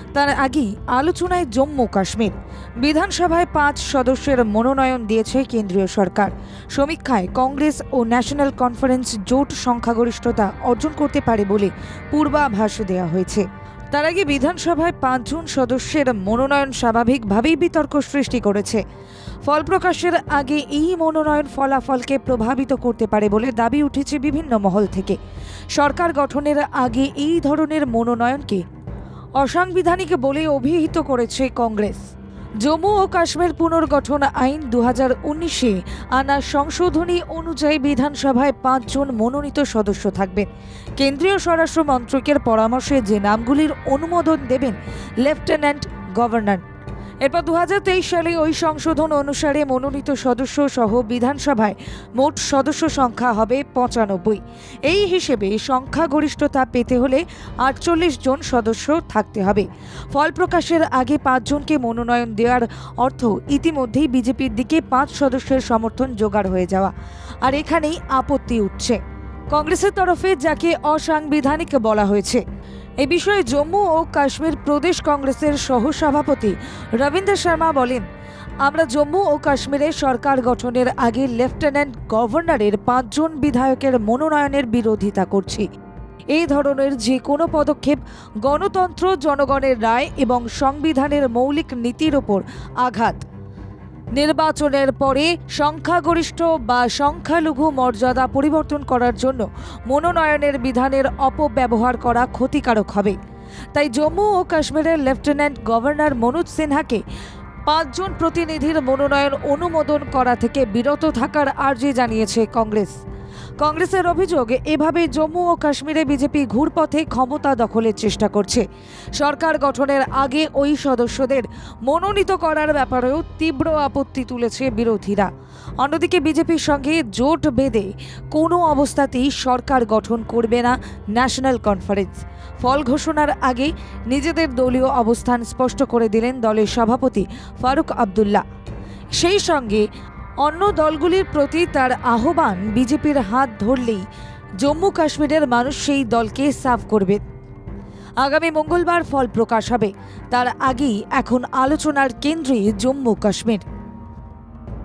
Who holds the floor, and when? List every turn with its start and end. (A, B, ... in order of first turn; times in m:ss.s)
0:00.1-0:18.8 A
0:19.4-0:25.2 A
0:25.7-0:28.6 A
0:29.4-0:32.1 A
0:32.6-0:46.6 A
0:47.2-1:09.0 A
1:09.5-1:12.4 A
1:13.0-1:18.0 A
1:18.6-1:25.7 A
1:26.3-1:33.2 A
1:34.2-1:43.2 A
1:43.7-1:47.0 A
1:47.7-1:53.0 A
1:53.6-2:18.4 A
2:19.2-2:19.8 A
2:20.4-2:24.0 A
2:24.6-2:27.2 A
2:28.2-2:33.6 A